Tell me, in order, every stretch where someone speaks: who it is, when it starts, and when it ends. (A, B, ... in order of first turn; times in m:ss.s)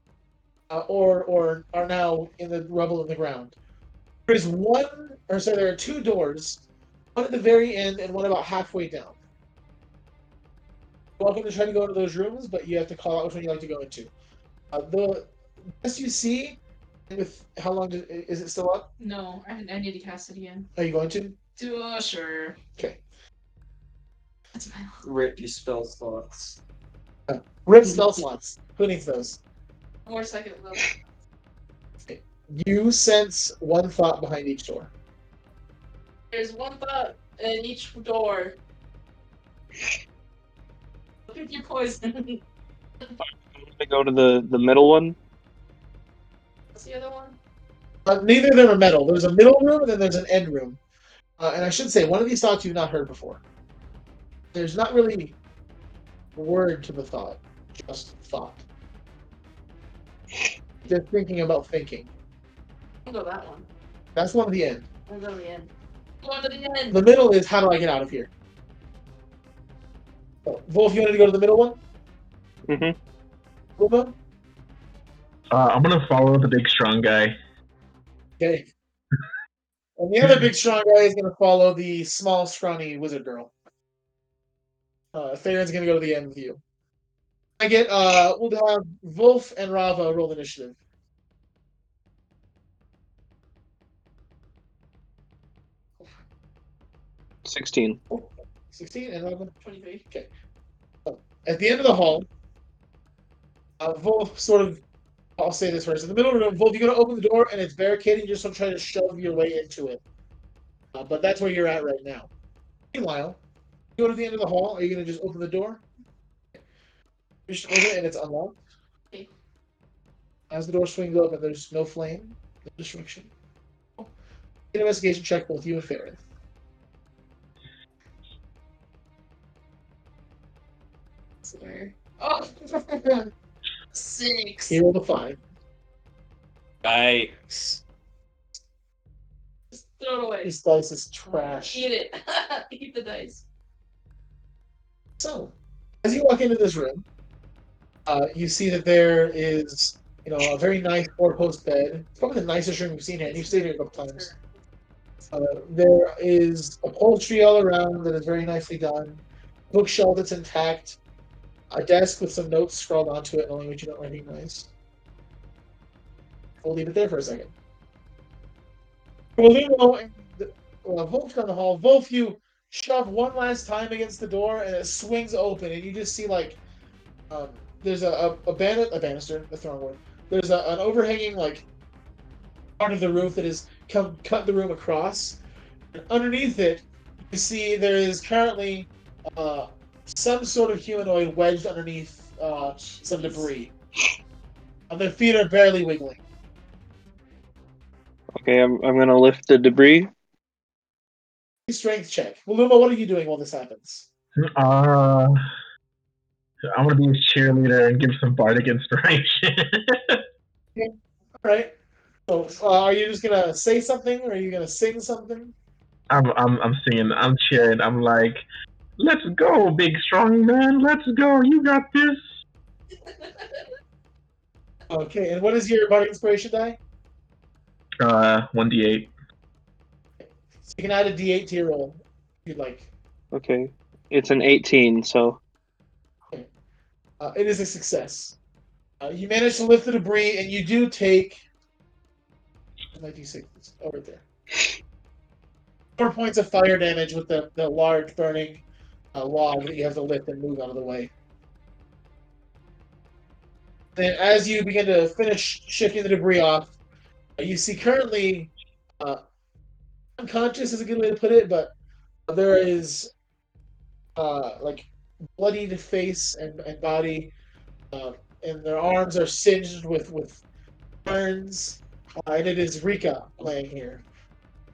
0:00.7-0:03.6 A
0:04.3-0:06.6 A
0:07.2-0:09.2 A
0:11.2-0:14.1 A
0:14.7-0:15.3 A
0:15.8-0:16.6 A
0:17.1-0:18.8 A
0:19.0-0:20.7 B
0:20.8-0:21.4 A
0:21.6-0:22.6 B
0:24.6-0:25.0 B
0:25.0-0:26.6 C
0:27.3-0:29.4 A
0:30.1-0:31.0 B
0:32.1-0:34.9 A
0:36.3-0:38.6 B
0:41.3-0:42.4 B
0:43.2-0:45.2 D
0:46.7-0:47.4 B
0:48.1-0:50.8 A
0:51.4-0:53.4 A
0:54.5-0:55.4 A
0:56.4-0:58.6 A
1:00.9-1:02.1 A
1:03.0-1:03.7 B
1:04.2-1:04.9 A
1:05.1-1:05.7 B
1:06.2-1:07.0 B
1:06.9-1:08.3 A
1:10.4-1:11.8 A
1:12.7-1:13.0 D
1:13.8-1:14.1 A
1:15.5-1:17.4 E
1:18.4-1:18.7 A
1:20.0-1:23.5 A
1:25.1-1:26.6 A
1:27.6-1:30.8 A
1:37.4-1:38.0 D
1:38.1-1:39.5 A
1:39.6-1:40.0 B
1:41.1-1:42.3 A
1:43.8-1:44.8 A
1:45.4-1:50.0 A
1:50.9-1:52.3 A
1:52.9-1:53.4 A
1:54.0-1:55.8 A
1:57.5-1:58.6 A
2:00.5-2:03.3 A
2:04.7-2:06.2 A
2:11.4-2:13.3 B
2:13.9-2:14.8 B
2:14.7-2:15.4 A
2:16.8-2:17.3 C
2:17.5-2:17.8 A
2:19.7-2:20.5 B
2:20.4-2:21.8 A
2:21.7-2:23.4 B
2:25.2-2:27.0 A
2:28.1-2:34.3 A
2:33.2-2:34.4 B
2:35.3-2:41.0 A
2:41.7-2:44.7 A
2:46.6-2:47.5 A
2:49.4-2:56.6 A
2:57.3-3:01.6 A
3:02.8-3:05.4 A
3:05.9-3:13.7 A
3:12.6-3:13.5 B
3:14.9-3:16.2 A
3:18.4-3:20.1 D
3:21.7-3:24.1 A
3:24.4-3:25.4 E
3:26.7-3:30.2 E
3:30.8-3:31.7 A
3:32.3-3:35.5 A
3:36.1-3:38.4 E
3:39.0-3:42.2 E
3:43.1-3:43.6 B
3:44.9-3:46.8 A
3:48.0-3:49.1 E
3:50.2-3:52.9 A
3:53.3-3:55.4 D
3:57.2-3:58.4 A
3:59.0-4:01.4 A
4:02.9-4:04.2 A
4:06.0-4:08.6 A
4:09.2-4:11.1 A
4:14.0-4:16.7 A
4:17.4-4:19.2 A
4:20.2-4:21.7 A
4:22.3-4:23.1 A
4:24.2-4:27.3 A
4:27.9-4:30.4 A
4:31.0-4:34.0 A